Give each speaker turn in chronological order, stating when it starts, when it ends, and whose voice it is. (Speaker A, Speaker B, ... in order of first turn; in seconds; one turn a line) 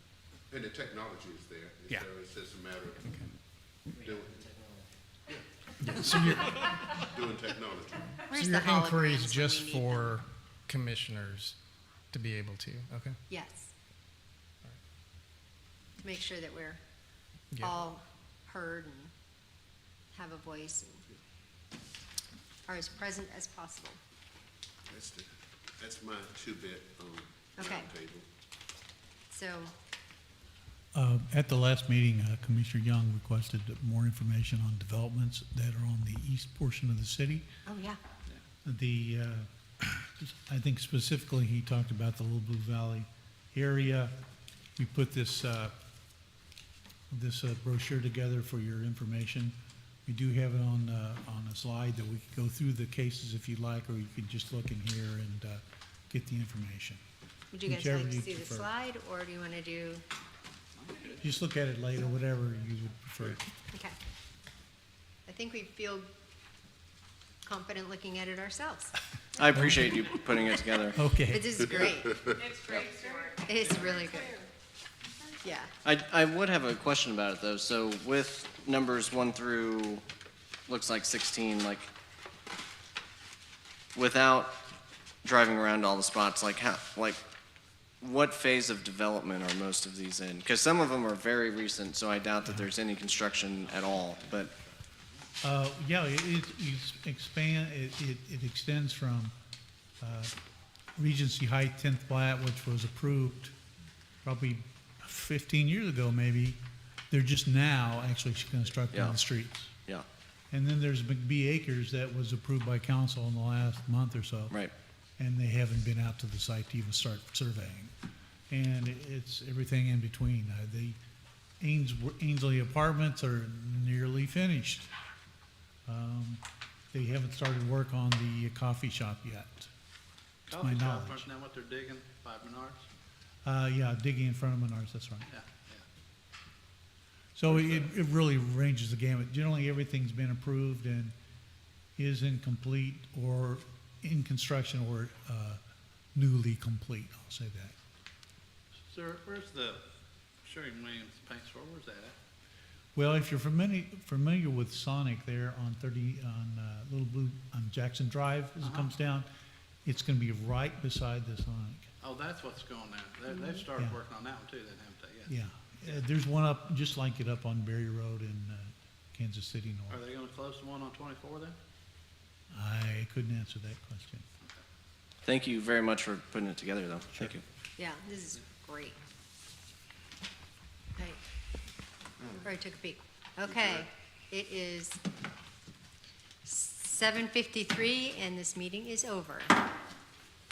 Speaker A: 0.5-3.0
Speaker A: 4.0-4.3
Speaker B: 4.0-4.9
Speaker A: 5.3-6.4
Speaker C: 5.8-6.8
Speaker A: 7.0-8.2
Speaker D: 8.3-10.2
Speaker C: 8.3-11.6
Speaker C: 12.1-13.2
Speaker D: 13.3-13.7
Speaker D: 16.0-16.8
Speaker C: 17.5-17.8
Speaker D: 17.6-19.1
Speaker D: 20.1-21.1
Speaker D: 22.7-24.0
Speaker A: 24.9-28.3
Speaker D: 27.6-27.9
Speaker D: 29.3-29.7
Speaker E: 30.9-37.5
Speaker D: 37.7-38.0
Speaker E: 38.6-44.1
Speaker E: 44.8-45.7
Speaker E: 47.1-49.5
Speaker E: 50.1-57.0
Speaker D: 57.5-60.0
Speaker E: 57.6-58.7
Speaker F: 60.8-61.2
Speaker E: 61.2-63.4
Speaker D: 63.7-64.0
Speaker D: 65.3-66.1
Speaker D: 67.5-68.9
Speaker G: 69.4-71.0
Speaker E: 69.5-70.1
Speaker E: 71.0-71.6
Speaker D: 71.3-72.2
Speaker A: 71.8-72.4
Speaker B: 72.4-74.5
Speaker G: 72.7-72.9
Speaker D: 73.4-74.4
Speaker D: 75.4-75.7
Speaker G: 75.8-80.0
Speaker G: 80.7-81.9
Speaker G: 84.0-84.5
Speaker G: 85.2-87.2
Speaker G: 88.0-94.5
Speaker E: 95.4-99.3
Speaker E: 100.0-100.3
Speaker E: 101.0-103.5
Speaker E: 104.2-106.6
Speaker E: 107.1-109.8
Speaker G: 108.9-109.2
Speaker E: 110.5-114.6
Speaker E: 115.2-117.9
Speaker E: 118.5-121.0
Speaker E: 121.6-124.9
Speaker E: 125.9-129.7
Speaker F: 130.5-132.8
Speaker E: 130.5-131.2
Speaker E: 133.4-135.3
Speaker F: 135.3-135.8
Speaker E: 137.4-141.2
Speaker F: 137.5-137.9
Speaker E: 142.0-145.6
Speaker E: 146.2-147.8
Speaker F: 148.9-149.8
Speaker F: 150.4-152.2
Speaker E: 152.9-159.3
Speaker F: 158.6-158.9
Speaker E: 159.8-161.9
Speaker F: 162.0-165.3
Speaker E: 165.3-170.0
Speaker F: 169.9-171.6
Speaker E: 172.5-174.3
Speaker G: 175.2-177.4
Speaker D: 177.8-179.0
Speaker D: 182.4-185.0
Speaker D: 186.4-189.6